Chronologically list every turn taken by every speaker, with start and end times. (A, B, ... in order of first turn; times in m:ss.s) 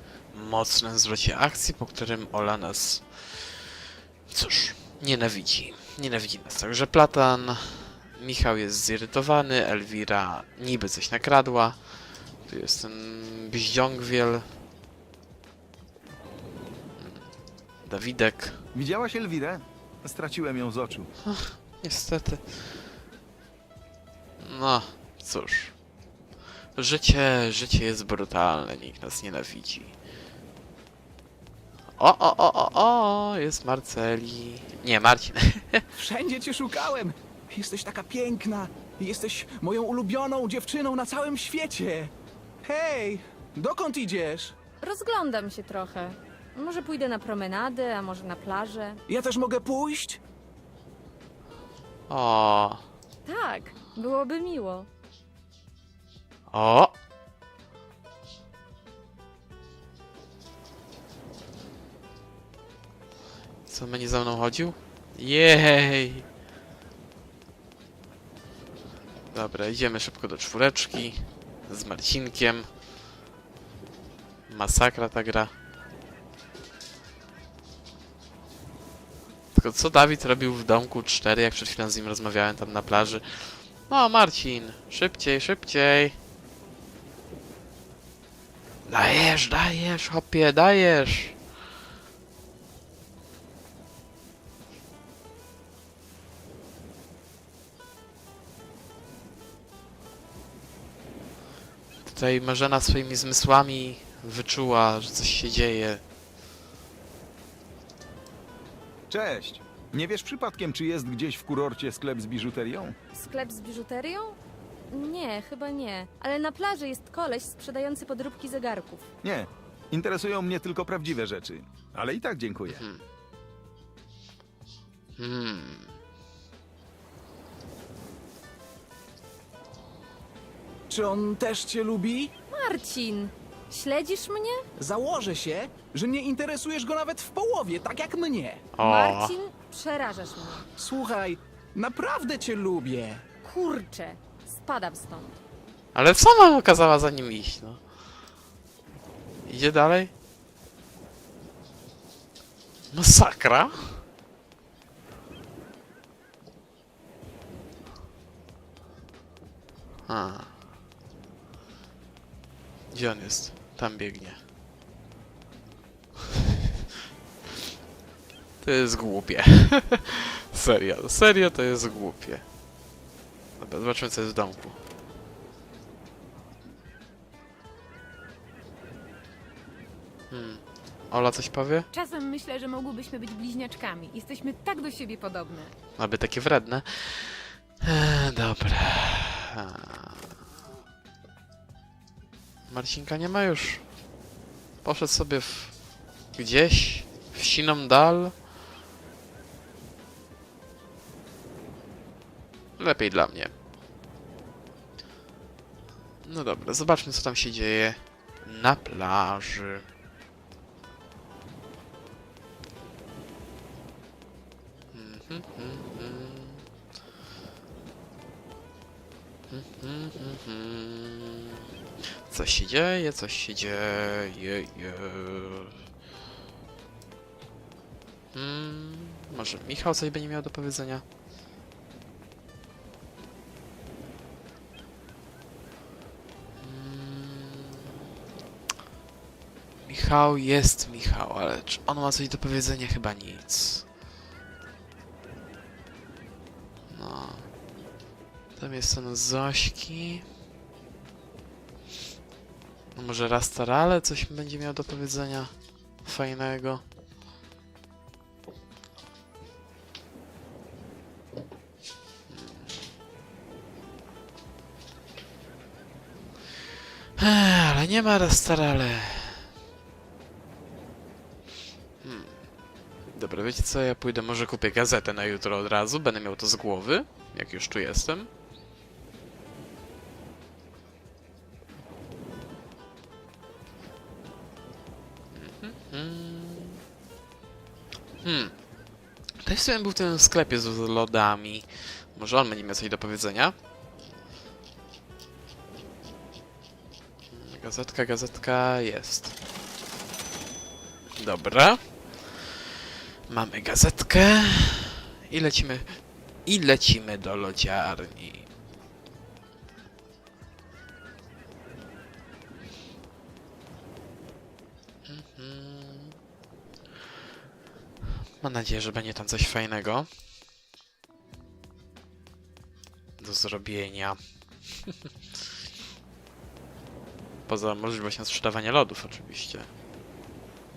0:00.3-0:03.6 A
0:04.3-0:11.8 A
0:12.4-0:14.4 A
0:17.0-0:17.3 A
0:17.9-0:18.6 A
0:18.7-0:21.1 B
0:21.2-0:22.7 A
0:24.4-0:25.7 A
0:26.8-0:30.0 A
0:32.0-0:35.9 A
0:36.0-0:42.1 C
0:42.6-0:44.6 C
0:44.8-0:49.0 D
0:49.1-0:50.2 C
0:52.1-0:52.8 A
0:53.3-0:54.9 D
0:56.5-0:56.9 A
1:03.7-1:06.2 A
1:09.3-1:12.7 A
1:14.5-1:15.5 A
1:19.5-1:26.2 A
1:28.9-1:31.4 A
1:42.0-1:46.0 A
1:49.1-1:52.9 B
1:53.1-1:59.1 D
1:59.2-2:02.8 B
2:02.7-2:03.0 A
2:05.2-2:05.9 A
2:10.9-2:12.3 C
2:12.5-2:14.6 D
2:14.8-2:18.7 C
2:18.8-2:19.4 A
2:18.8-2:20.7 D
2:20.8-2:23.2 C
2:23.4-2:25.4 D
2:26.0-2:27.8 A
2:29.4-2:30.1 A
2:32.9-2:34.0 A
2:40.1-2:40.5 A
2:42.9-2:44.4 A
2:48.6-2:52.4 A
2:53.6-2:54.8 A
3:00.3-3:01.9 A
3:01.9-3:05.7 E
3:06.0-3:10.2 A
3:12.7-3:13.8 A
3:14.8-3:15.8 A
3:16.3-3:18.3 A
3:22.8-3:23.5 A
3:26.2-3:29.8 A
3:34.9-3:36.6 A
3:39.5-3:41.6 A
3:42.3-3:45.7 A
3:48.3-3:51.0 A
3:56.6-3:57.9 A
3:59.9-4:03.9 A
4:06.9-4:07.5 A
4:08.6-4:10.2 A
4:13.0-4:15.5 A
4:16.0-4:16.8 A
4:22.3-4:22.6 A
4:27.2-4:29.4 A
4:32.0-4:32.4 A
4:33.1-4:38.3 A
4:45.3-4:46.8 A
4:48.2-4:48.5 A
4:49.4-4:53.6 A
4:57.3-4:59.4 A
5:01.2-5:02.5 A
5:03.3-5:08.5 A
5:15.1-5:16.2 A
5:18.4-5:20.1 A
5:23.2-5:24.2 A
5:27.5-5:29.7 A